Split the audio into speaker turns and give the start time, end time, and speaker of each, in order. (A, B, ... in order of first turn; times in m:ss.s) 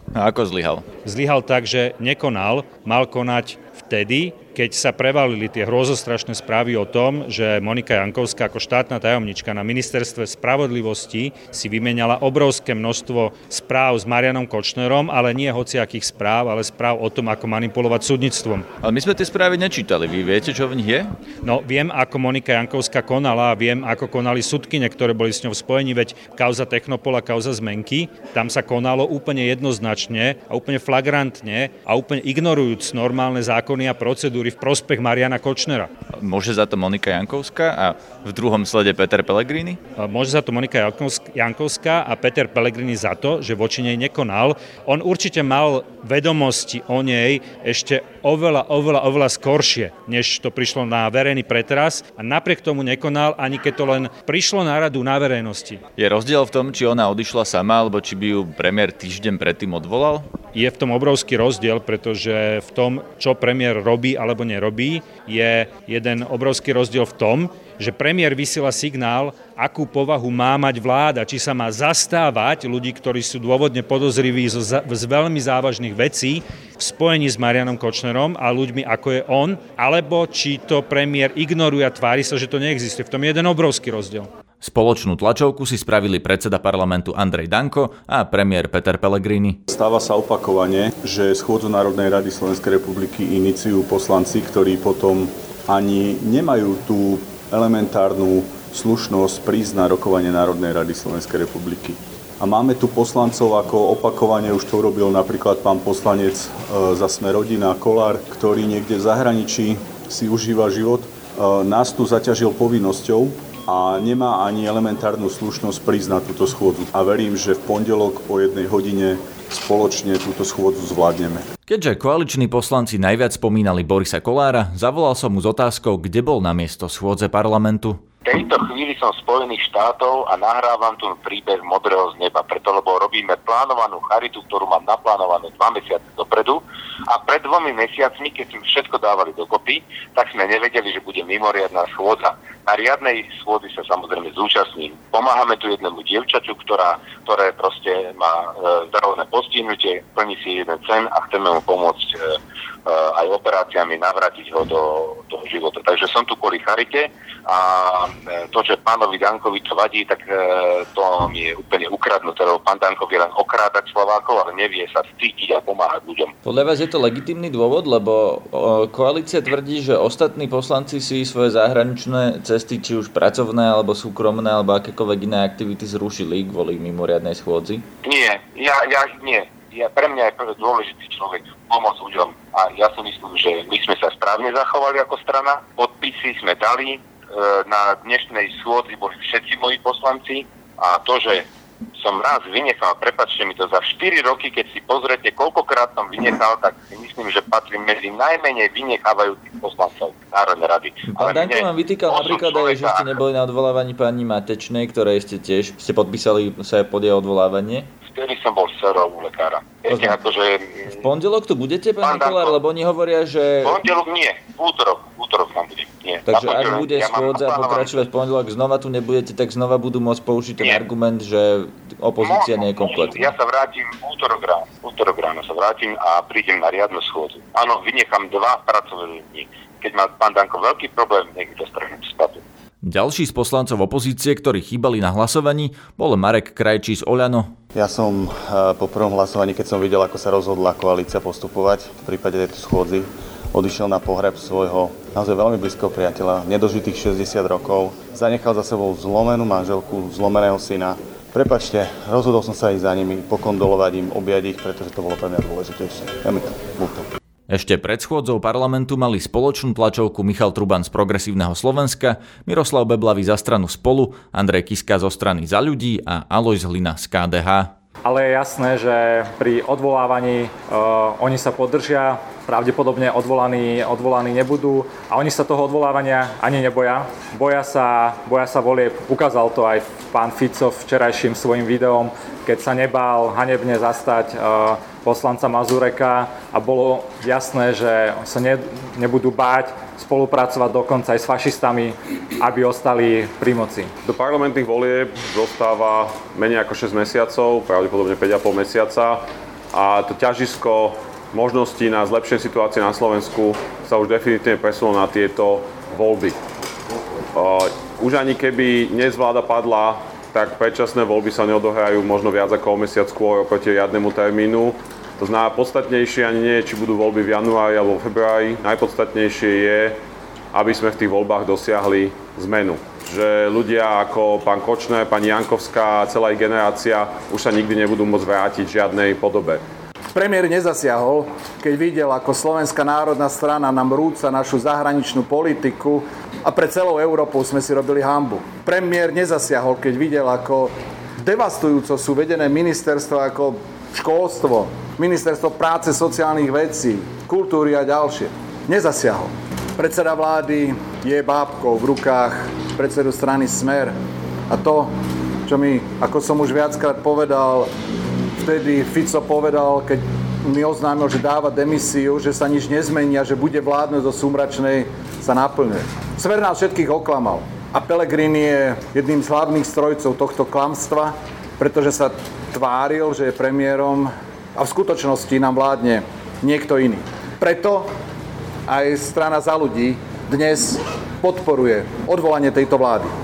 0:00.1-0:00.8 A
0:01.0-0:18.6 B
0:18.8-0:21.1 A
0:21.4-0:35.9 B
0:36.2-0:39.8 A
0:40.0-0:55.8 B
0:56.0-1:00.3 A
1:00.5-1:24.3 B
1:24.6-1:29.6 A
1:29.7-2:01.4 C
2:01.7-2:08.0 A
2:08.2-2:46.3 D
2:46.4-2:57.8 A
2:58.0-3:23.0 D
3:21.1-3:27.9 A
3:28.0-3:30.9 D
3:29.9-3:30.2 A
3:30.9-3:33.8 A
3:32.0-3:32.6 D
3:33.6-3:37.9 D
3:36.2-3:43.3 A
3:42.2-3:52.4 D
3:52.8-3:57.5 A
3:57.7-4:17.1 E
4:17.5-4:27.7 A
4:28.0-4:53.9 F
4:54.0-5:06.4 G
5:07.3-5:20.0 G
5:20.5-5:29.6 G
5:30.1-5:53.9 H
5:54.5-5:54.9 H
5:55.4-5:57.7 H
5:58.4-6:17.9 H
6:18.7-6:23.1 H